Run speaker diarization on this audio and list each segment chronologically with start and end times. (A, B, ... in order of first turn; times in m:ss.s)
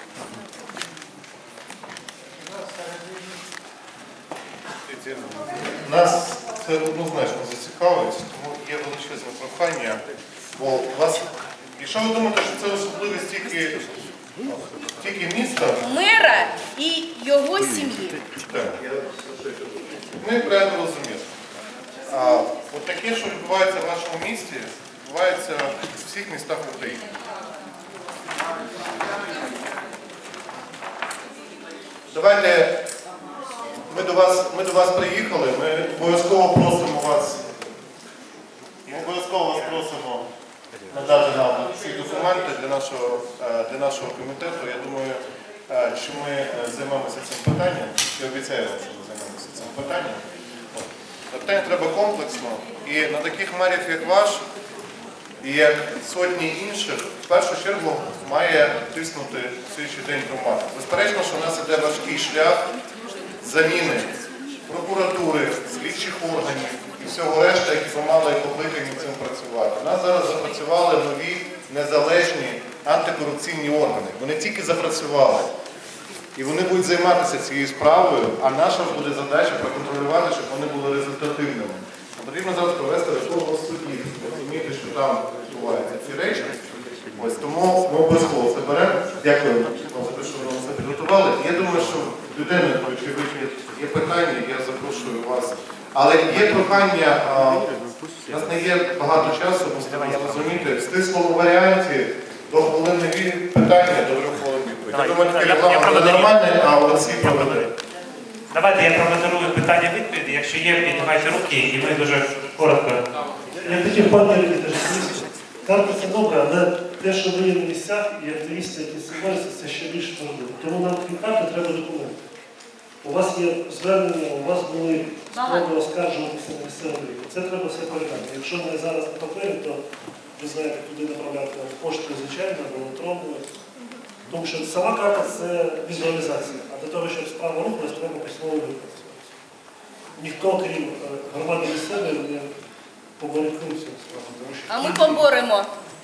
0:04.9-0:10.0 A
0:10.6-0:13.9 A
0:14.4-0:15.8 A
0:15.8-0:18.2 B
0:18.5-0:18.9 A
0:20.1-0:21.3 A
0:22.1-0:27.1 A
0:32.1-0:32.8 A
0:33.9-0:37.4 A
0:38.9-0:40.3 A
0:40.9-0:50.2 A
0:50.8-0:54.4 A
0:55.4-1:02.6 A
1:03.4-1:04.1 A
1:04.7-1:15.5 A
1:16.4-1:26.6 A
1:27.2-1:37.7 A
1:38.3-1:47.7 A
1:44.9-1:47.7 C
1:48.5-1:53.0 C
1:53.6-2:02.2 D
2:03.0-2:09.8 D
2:05.3-2:05.7 B
2:10.4-2:13.5 D
2:14.3-2:19.3 D
2:20.2-2:22.5 D
2:23.2-2:25.2 D
2:24.7-2:25.7 B